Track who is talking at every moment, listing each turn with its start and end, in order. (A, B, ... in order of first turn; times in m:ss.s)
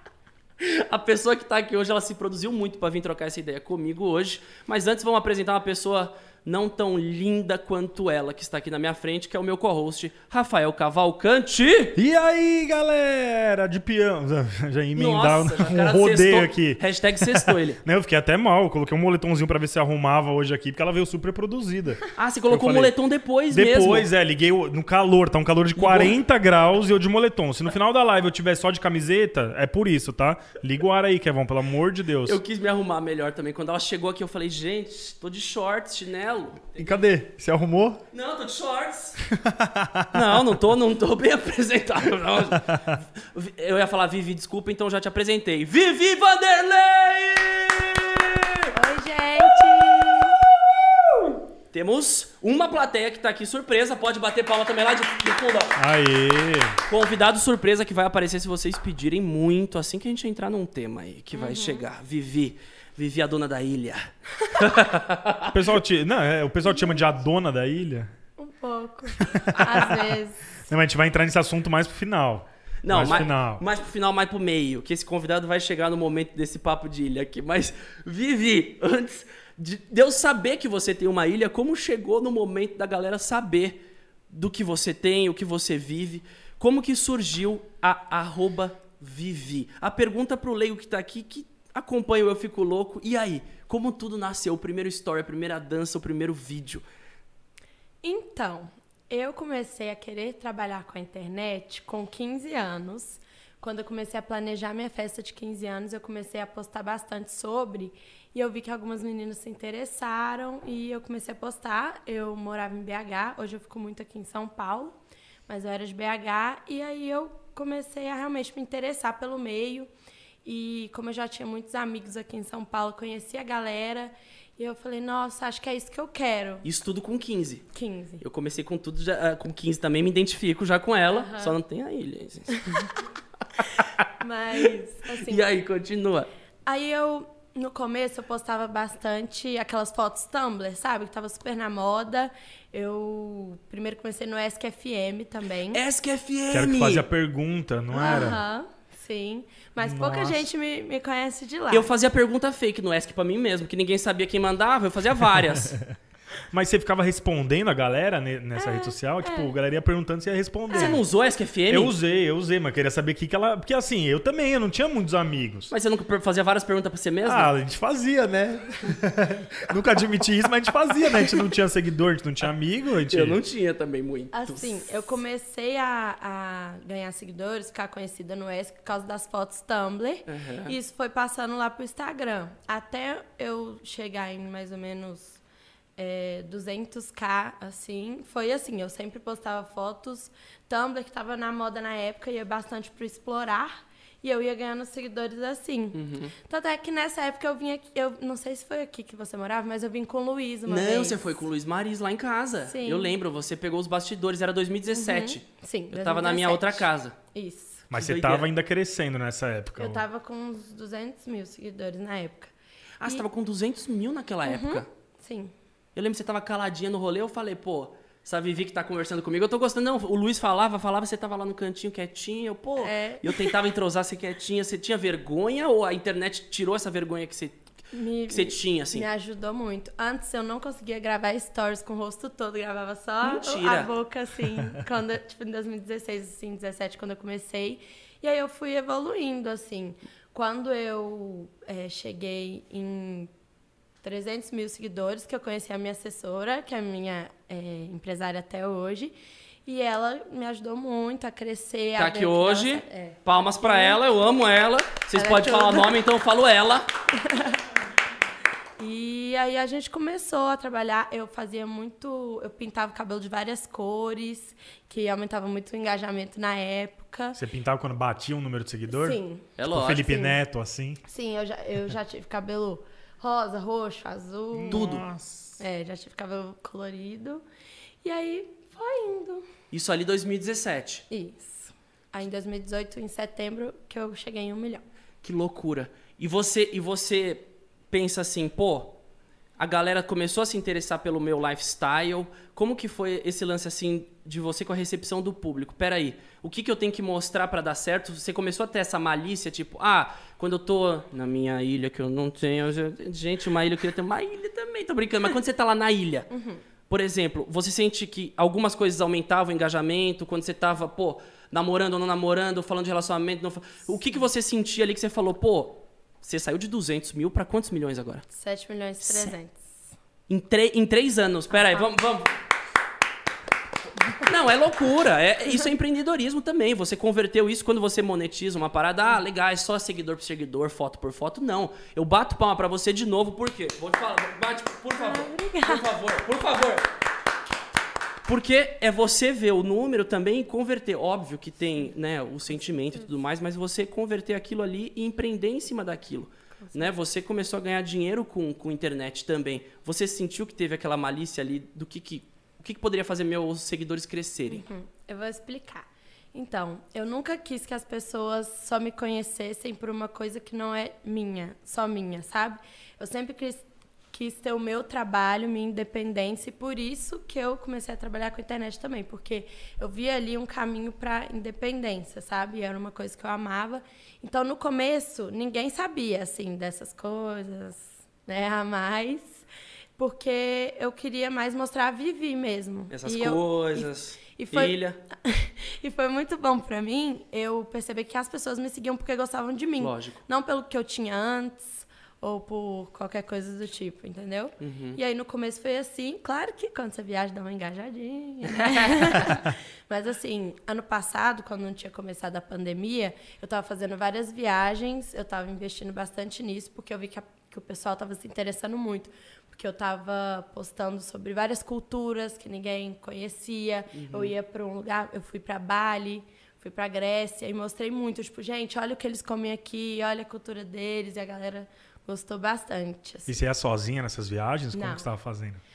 0:00.6-0:12.0 A
0:12.0-0:22.9 B
0:15.0-0:17.8 A
0:22.2-0:24.1 A
0:23.5-0:32.4 B
0:25.8-0:26.1 A
0:32.2-0:37.0 A
0:36.8-0:38.0 B
0:38.1-0:39.2 A
0:39.2-0:40.4 B
0:40.1-0:48.7 A
0:42.5-0:42.9 B
0:48.7-0:50.4 C
0:51.7-0:55.8 A
0:55.8-0:56.8 B
0:56.9-1:05.6 A
1:01.3-1:01.8 C
1:05.5-1:08.1 B
1:08.4-1:10.6 C
1:09.2-1:09.9 B
1:09.6-1:10.0 A
1:10.6-1:13.6 B
1:12.8-1:23.8 A
1:24.3-1:36.8 A
1:38.0-1:59.9 C
2:00.4-2:06.6 C
2:06.6-2:07.6 A
2:07.7-2:08.2 C
2:08.2-2:12.9 A
2:11.1-2:11.5 C
2:12.5-2:12.8 C
2:13.6-2:14.0 A
2:14.2-2:15.4 C
2:15.2-2:16.3 A
2:16.6-2:25.8 C
2:25.7-2:27.0 A
2:26.5-2:28.4 B
2:28.0-2:31.9 C
2:29.8-2:30.4 B
2:31.7-2:35.8 A
2:36.5-2:41.0 B
2:38.6-2:39.5 C
2:40.7-2:41.0 C
2:40.7-2:41.9 A
2:41.7-2:45.7 B
2:45.7-2:47.5 A
2:47.2-2:53.4 B
2:53.1-2:54.8 A
2:54.3-3:05.4 C
3:00.3-3:00.8 A
3:06.0-3:21.4 C
3:15.9-3:16.3 A
3:20.6-3:27.1 A
3:22.7-3:23.1 C
3:24.9-3:27.9 C
3:27.9-3:30.0 B
3:27.9-3:28.5 A
3:29.8-3:32.5 C
3:33.0-3:34.8 A
3:34.4-3:35.5 C
3:35.9-3:47.6 A
3:42.8-3:43.5 C
3:47.9-4:03.3 C
3:48.3-3:49.1 A
3:53.2-3:53.9 A
4:04.0-4:09.1 C
4:09.6-4:14.0 C
4:12.0-4:16.9 A
4:15.1-4:15.9 C
4:17.1-4:17.6 C
4:18.8-4:27.4 C
4:27.4-4:31.0 B
4:28.9-4:29.5 C
4:29.6-4:30.2 A
4:31.0-4:34.9 C
4:34.5-4:35.6 B
4:34.7-4:35.0 A
4:35.6-4:37.4 C
4:38.0-4:39.4 C
4:39.7-4:41.0 A
4:41.1-4:44.8 C
4:45.2-4:49.0 A
4:49.6-5:06.3 A
5:06.3-5:06.6 C
5:06.9-5:18.2 A
5:18.3-5:19.7 C
5:19.0-5:19.3 A
5:20.3-5:22.3 A
5:24.2-5:36.9 A
5:35.0-5:35.9 C
5:38.2-5:54.6 A
5:54.5-6:19.4 C
6:20.0-7:03.4 C
6:22.9-6:25.0 A
6:29.8-6:30.2 A
6:34.6-6:35.0 A
6:38.6-6:39.0 A
6:53.9-6:54.3 A
7:03.3-7:05.6 B
7:04.7-7:05.0 C